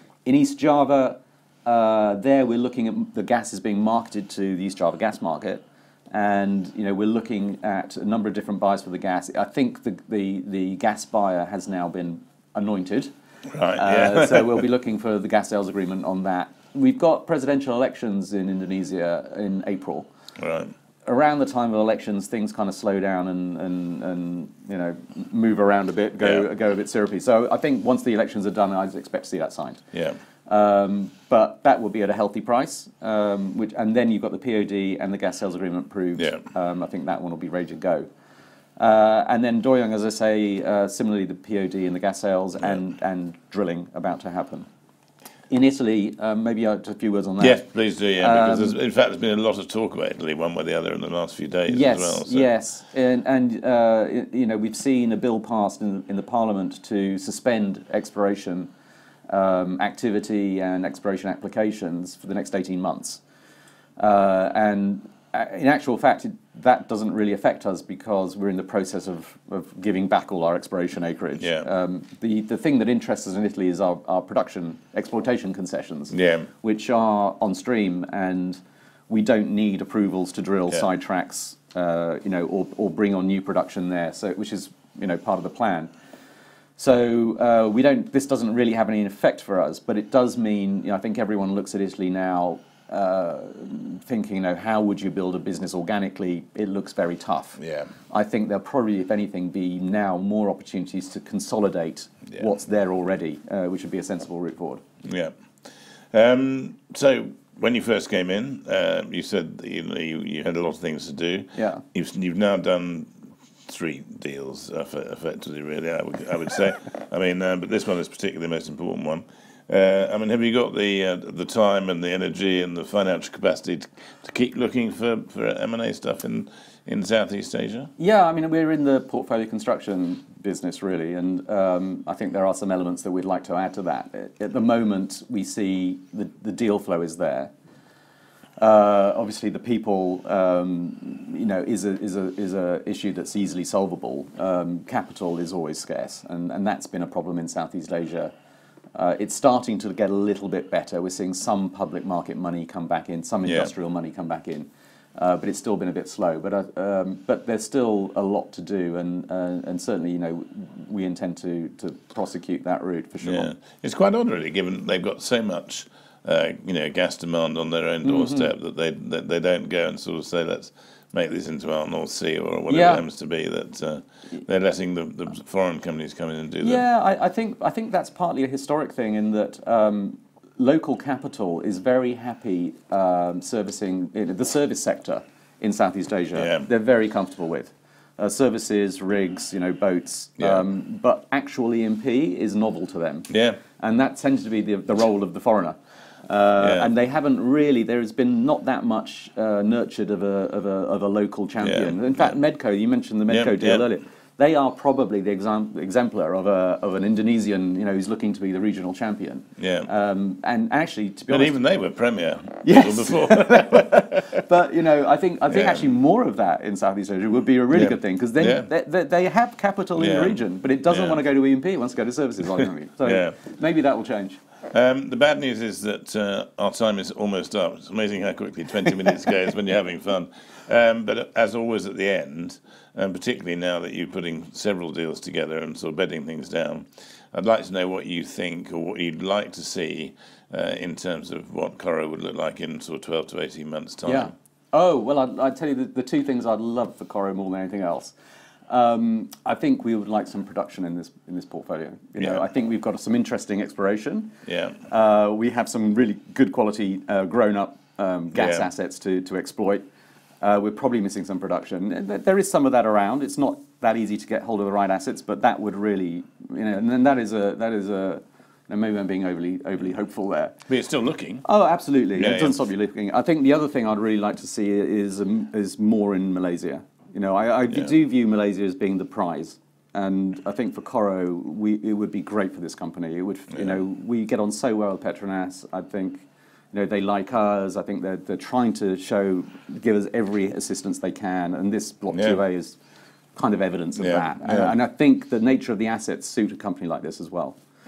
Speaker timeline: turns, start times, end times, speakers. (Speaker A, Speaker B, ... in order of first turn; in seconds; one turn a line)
Speaker A: 0.2-13.1
Speaker B: 13.5-14.6
Speaker A: 13.7-20.1
Speaker B: 20.4-20.7
Speaker A: 21.0-29.8
Speaker B: 26.2-26.4
Speaker B: 29.9-30.2
Speaker A: 30.4-38.1
Speaker A: 38.8-44.7
Speaker A: 45.5-47.6
Speaker B: 47.4-52.5
Speaker A: 48.2-48.8
Speaker A: 51.7-58.7
Speaker A: 59.3-63.2
Speaker A: 64.0-85.9
Speaker B: 71.4-71.7
Speaker B: 76.1-76.5
Speaker A: 86.8-104.8
Speaker B: 97.6-97.9
Speaker B: 105.0-105.3
Speaker B: 106.1-113.1
Speaker A: 111.5-111.8
Speaker B: 113.7-127.9
Speaker A: 128.0-137.5
Speaker A: 138.6-148.3
Speaker A: 148.9-163.5
Speaker B: 153.4-153.7
Speaker B: 163.2-176.8
Speaker A: 168.0-168.5
Speaker A: 172.7-173.0
Speaker A: 176.6-211.6
Speaker B: 186.3-186.7
Speaker B: 193.3-193.6
Speaker B: 196.6-196.9
Speaker B: 201.6-202.3
Speaker B: 203.3-203.8
Speaker B: 209.6-209.9
Speaker B: 211.3-214.4
Speaker A: 212.6-224.4
Speaker B: 215.5-215.8
Speaker B: 217.7-218.7
Speaker B: 220.0-221.2
Speaker B: 223.0-223.4
Speaker B: 224.7-244.3
Speaker A: 244.0-248.1
Speaker A: 248.7-254.3
Speaker B: 254.5-254.8
Speaker A: 254.9-259.8
Speaker B: 258.3-258.6
Speaker A: 260.4-270.6
Speaker B: 270.7-271.4
Speaker A: 271.4-292.8
Speaker B: 272.1-272.6
Speaker B: 292.1-292.4
Speaker A: 293.4-297.6
Speaker B: 294.0-294.7